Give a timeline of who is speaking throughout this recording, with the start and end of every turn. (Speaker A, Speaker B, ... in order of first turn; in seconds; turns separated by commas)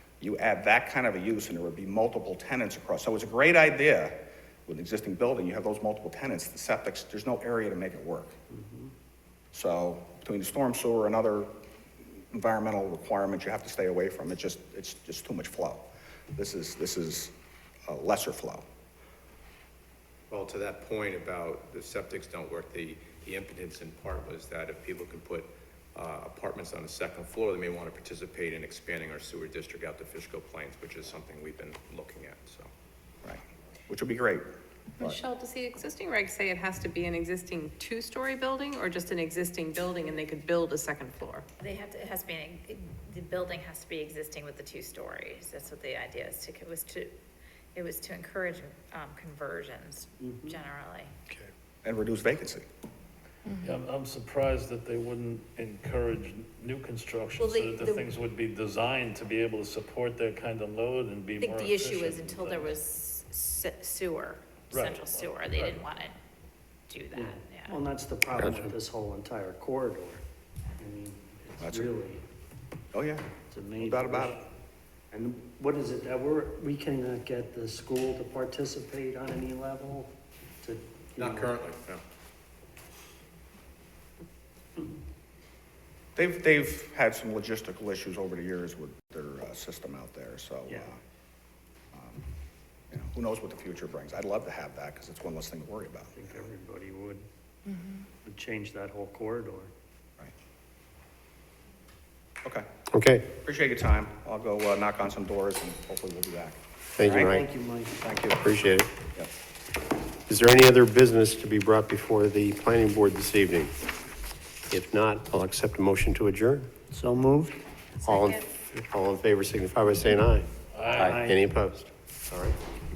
Speaker A: 0.2-8.4, Speaker B: 8.5-8.9, Speaker A: 9.5-11.5, Speaker A: 12.3-17.3, Speaker A: 17.9-18.6, Speaker C: 20.3-32.7, Speaker A: 33.2-34.5, Speaker D: 35.0-41.5, Speaker E: 41.6-47.1, Speaker E: 47.8-51.1, Speaker B: 50.2-50.6, Speaker A: 51.8-52.6, Speaker F: 53.6-62.8, Speaker E: 57.4-58.0, Speaker E: 61.4-66.2, Speaker F: 64.7-65.9, Speaker E: 66.9-67.8, Speaker B: 67.1-70.2, Speaker B: 70.8-72.2, Speaker A: 71.6-71.9, Speaker A: 72.9-74.4, Speaker B: 73.5-74.5, Speaker B: 75.1-81.6, Speaker C: 81.5-82.0, Speaker A: 86.2-91.0, Speaker A: 91.9-92.3, Speaker A: 92.9-96.5, Speaker B: 96.2-97.2, Speaker B: 97.9-99.7, Speaker G: 102.9-103.3, Speaker A: 103.4-107.3, Speaker G: 107.0-107.5, Speaker B: 107.2-108.0, Speaker A: 108.0-108.5, Speaker G: 108.4-108.9, Speaker G: 110.3-113.8, Speaker G: 114.7-116.7, Speaker G: 118.0-122.6, Speaker E: 118.1-118.4, Speaker F: 120.7-121.2, Speaker B: 121.0-121.4